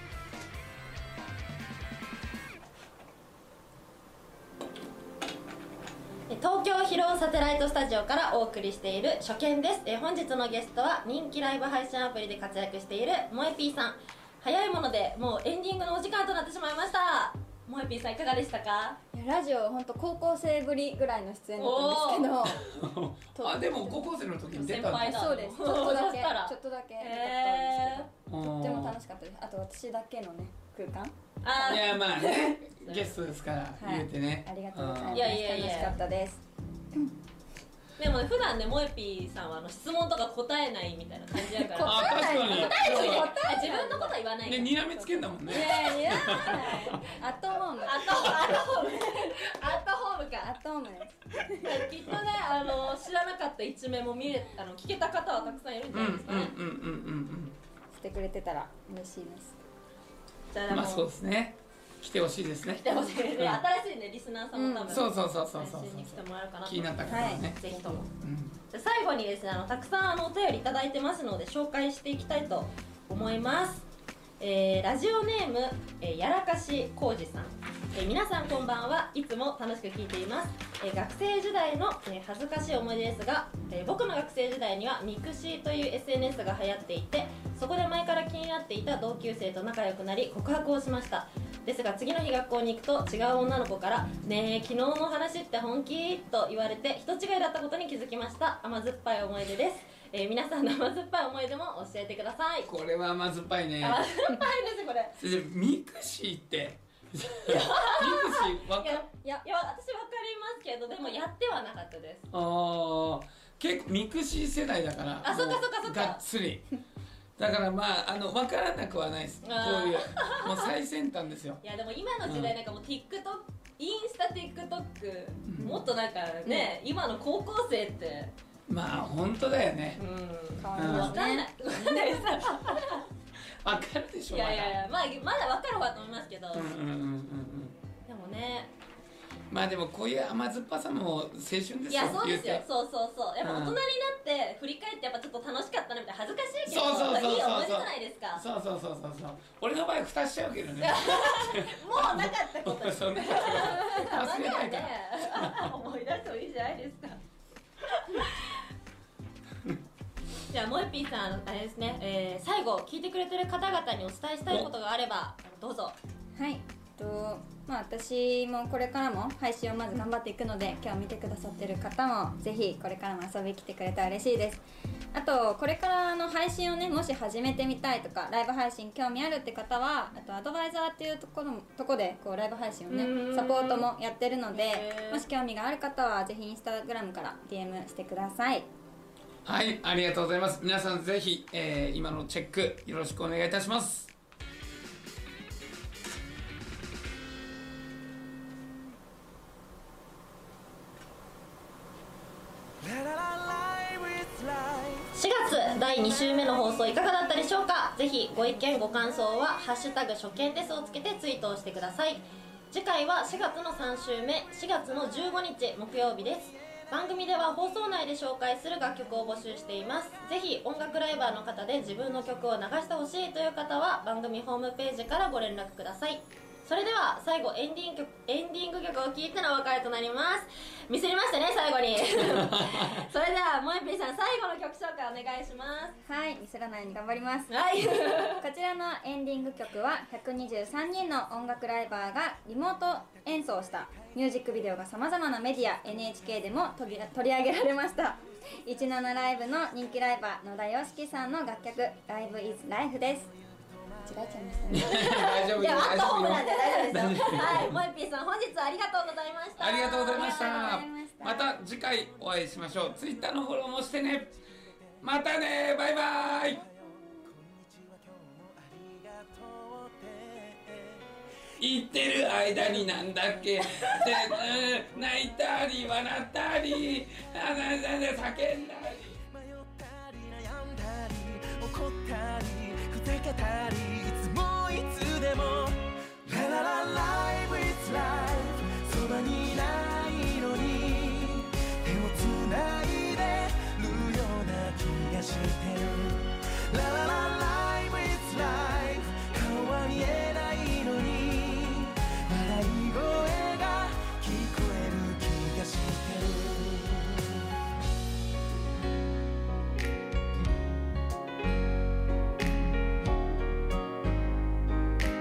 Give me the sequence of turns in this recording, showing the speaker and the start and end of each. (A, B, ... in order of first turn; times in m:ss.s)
0:06.3-0:19.0 A
0:19.1-0:24.1 B
0:21.6-0:22.4 A
0:22.4-0:25.2 C
0:24.5-0:28.1 A
0:24.9-0:32.0 B
0:28.3-0:29.0 C
0:31.4-0:33.2 A
0:31.6-0:35.4 C
0:33.8-0:37.1 B
0:35.1-0:36.0 A
0:38.0-0:44.8 A
0:41.6-0:44.2 B
0:41.8-0:43.4 C
0:44.4-0:47.0 C
0:44.9-0:48.8 B
0:45.5-0:46.9 A
0:47.8-0:50.6 A
0:50.4-0:51.8 B
0:51.6-0:56.5 A
0:55.9-0:57.5 C
0:57.9-0:59.6 B
1:00.5-1:01.1 A
1:00.7-1:03.6 C
1:02.8-1:08.1 A
1:04.5-1:05.0 B
1:04.9-1:07.6 C
1:07.1-1:08.0 B
1:08.1-1:08.6 C
1:08.7-1:13.8 A
1:14.4-1:42.7 A
1:42.6-1:44.1 C
1:43.8-1:45.2 A
1:45.2-1:49.0 C
1:47.4-1:52.3 A
1:52.3-1:56.7 C
1:55.2-1:56.2 A
1:57.4-2:01.6 C
1:59.4-2:00.7 A
2:01.6-2:08.3 A
2:02.2-2:02.6 C
2:05.5-2:05.8 C
2:06.4-2:06.7 B
2:08.7-2:10.0 C
2:10.0-2:13.0 A
2:10.6-2:12.3 B
2:10.7-2:11.2 C
2:13.6-2:14.8 C
2:14.3-2:16.7 A
2:16.5-2:17.7 C
2:18.1-2:18.7 A
2:19.5-2:22.6 C
2:21.9-2:28.4 A
2:23.4-2:23.8 C
2:26.6-2:35.7 C
2:30.8-2:37.2 A
2:37.9-2:38.6 A
2:40.5-2:46.0 A
2:46.4-3:08.7 B
3:02.9-3:03.9 A
3:04.5-3:05.2 A
3:09.4-3:14.1 C
3:22.8-3:25.1 D
3:25.1-3:56.0 A
3:52.1-3:53.0 C
3:56.0-4:13.3 B
3:57.5-3:58.4 A
4:13.7-4:14.0 D
4:14.0-4:15.1 B
4:14.7-4:17.8 C
4:14.8-4:20.5 A
4:16.4-4:17.4 B
4:19.6-4:24.3 C
4:20.1-4:21.6 B
4:25.0-4:31.0 D
4:25.0-4:26.6 C
4:31.6-4:39.2 C
4:33.6-4:34.3 A
4:34.2-4:35.2 D
4:37.0-4:37.8 D
4:39.1-5:07.3 D